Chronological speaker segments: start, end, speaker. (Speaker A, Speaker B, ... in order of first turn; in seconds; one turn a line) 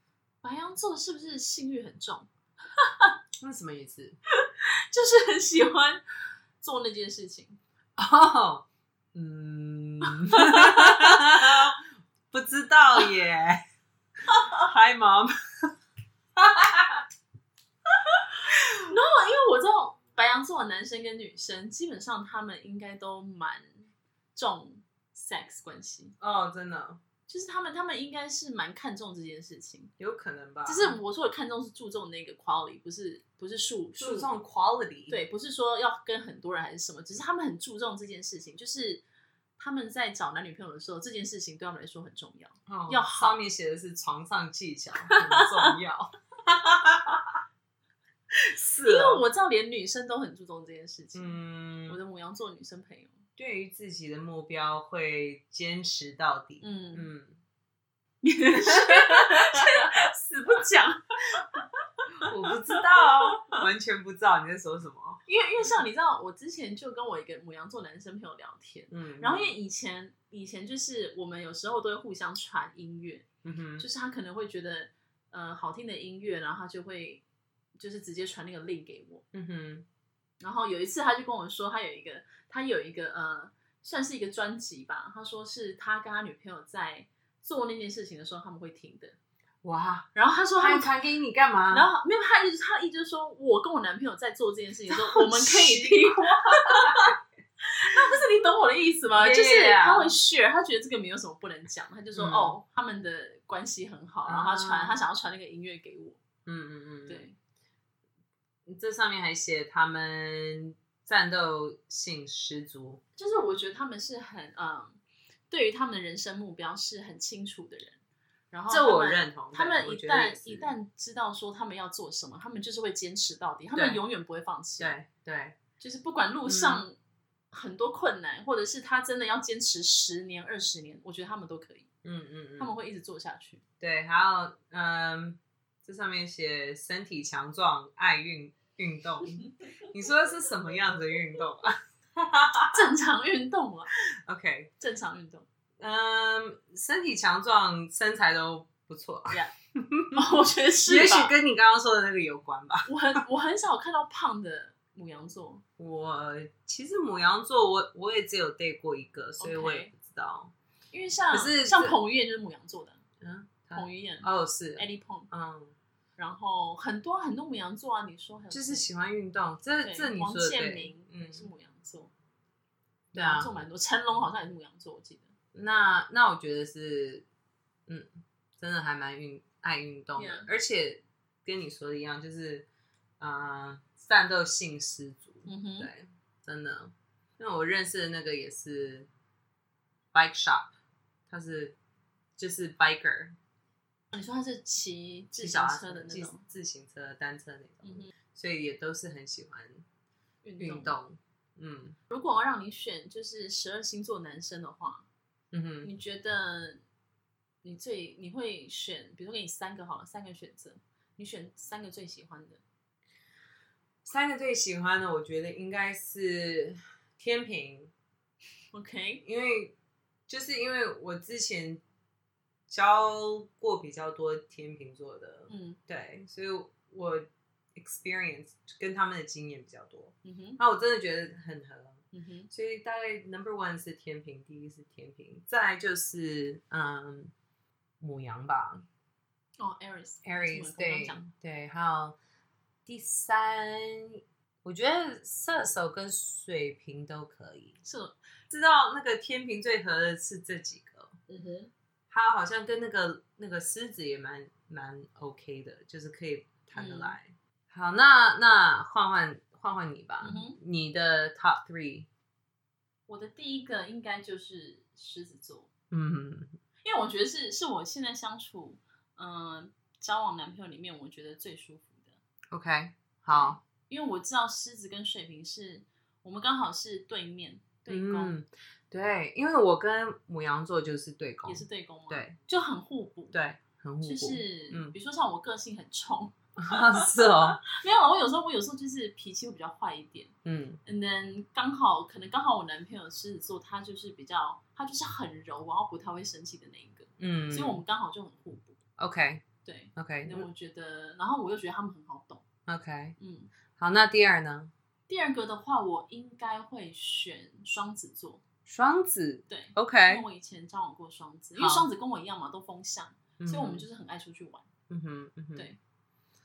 Speaker A: 0.4-3.2
Speaker B: 3.4-4.2
Speaker A: 4.3-6.0
Speaker A: 6.6-7.6
Speaker B: 8.0-13.6
Speaker A: 10.1-11.7
Speaker B: 14.3-15.7
Speaker B: 16.4-17.0
Speaker A: 18.8-26.1
Speaker B: 26.2-27.0
Speaker A: 27.3-29.9
Speaker B: 30.0-31.0
Speaker A: 30.6-34.3
Speaker B: 34.0-35.2
Speaker A: 35.1-39.0
Speaker A: 39.6-43.4
Speaker B: 42.7-47.4
Speaker A: 45.0-45.8
Speaker B: 48.3-49.2
Speaker A: 48.8-53.2
Speaker B: 51.1-52.0
Speaker B: 53.4-57.4
Speaker A: 56.6-57.1
Speaker A: 58.2-61.6
Speaker B: 58.5-59.9
Speaker B: 62.2-65.2
Speaker A: 62.2-63.6
Speaker A: 65.3-73.3
Speaker B: 68.9-69.6
Speaker B: 73.4-73.9
Speaker A: 73.8-77.2
Speaker A: 77.8-79.2
Speaker B: 79.3-79.9
Speaker A: 80.4-89.2
Speaker B: 89.6-91.9
Speaker A: 90.2-90.9
Speaker A: 91.7-106.2
Speaker B: 94.9-97.2
Speaker B: 97.9-98.2
Speaker B: 99.1-100.2
Speaker B: 102.2-102.6
Speaker B: 104.2-105.0
Speaker B: 106.5-107.3
Speaker A: 107.1-107.4
Speaker B: 108.7-113.0
Speaker A: 113.2-118.0
Speaker A: 118.5-125.0
Speaker B: 118.7-120.7
Speaker B: 123.8-124.0
Speaker B: 124.8-125.6
Speaker A: 125.8-127.0
Speaker B: 126.5-126.9
Speaker A: 127.5-131.9
Speaker B: 132.0-132.7
Speaker A: 132.6-133.6
Speaker B: 133.8-142.9
Speaker A: 142.7-143.9
Speaker B: 144.2-144.7
Speaker A: 144.8-145.5
Speaker B: 145.8-150.2
Speaker A: 150.1-151.3
Speaker B: 150.9-153.2
Speaker A: 152.9-155.6
Speaker B: 155.8-160.5
Speaker A: 159.4-159.9
Speaker A: 160.9-163.0
Speaker B: 161.3-162.0
Speaker B: 163.2-165.8
Speaker A: 163.8-165.3
Speaker A: 166.2-168.9
Speaker B: 168.5-171.5
Speaker A: 169.8-172.1
Speaker B: 173.1-173.5
Speaker A: 173.1-175.3
Speaker B: 175.5-177.3
Speaker B: 177.9-182.7
Speaker A: 180.2-180.5
Speaker B: 183.2-189.1
Speaker A: 185.5-185.9
Speaker B: 190.1-190.7
Speaker B: 191.3-191.8
Speaker B: 192.4-193.4
Speaker A: 194.1-196.4
Speaker B: 195.4-199.8
Speaker A: 197.8-198.1
Speaker A: 200.4-201.0
Speaker B: 200.6-202.0
Speaker A: 202.1-205.1
Speaker B: 205.5-205.9
Speaker A: 205.8-206.8
Speaker A: 207.6-212.6
Speaker B: 214.1-217.9
Speaker A: 218.7-219.2
Speaker B: 219.2-219.8
Speaker B: 220.3-221.8
Speaker B: 222.7-237.3
Speaker A: 225.5-225.8
Speaker A: 230.2-230.6
Speaker A: 232.1-232.5
Speaker B: 238.0-238.9
Speaker A: 239.6-241.3
Speaker B: 240.2-242.2
Speaker B: 242.9-247.8
Speaker A: 247.8-248.2
Speaker B: 248.5-251.2
Speaker A: 251.3-251.7
Speaker B: 252.1-262.1
Speaker A: 256.7-257.2
Speaker A: 260.2-260.6
Speaker A: 263.1-265.7
Speaker B: 265.9-266.6
Speaker A: 266.8-272.2
Speaker B: 272.5-273.6
Speaker A: 273.3-278.4
Speaker B: 277.9-282.4
Speaker A: 281.5-283.4
Speaker B: 283.3-284.9
Speaker A: 284.0-298.8
Speaker B: 286.6-287.6
Speaker B: 290.4-290.8
Speaker B: 297.2-297.8
Speaker B: 299.0-299.4
Speaker A: 299.6-302.4
Speaker B: 300.0-300.5
Speaker B: 302.7-303.2
Speaker A: 303.2-303.5
Speaker B: 303.8-304.7
Speaker A: 305.1-308.4
Speaker B: 308.7-310.3
Speaker A: 309.5-314.7
Speaker B: 311.6-311.9
Speaker B: 313.4-313.9
Speaker B: 314.9-315.7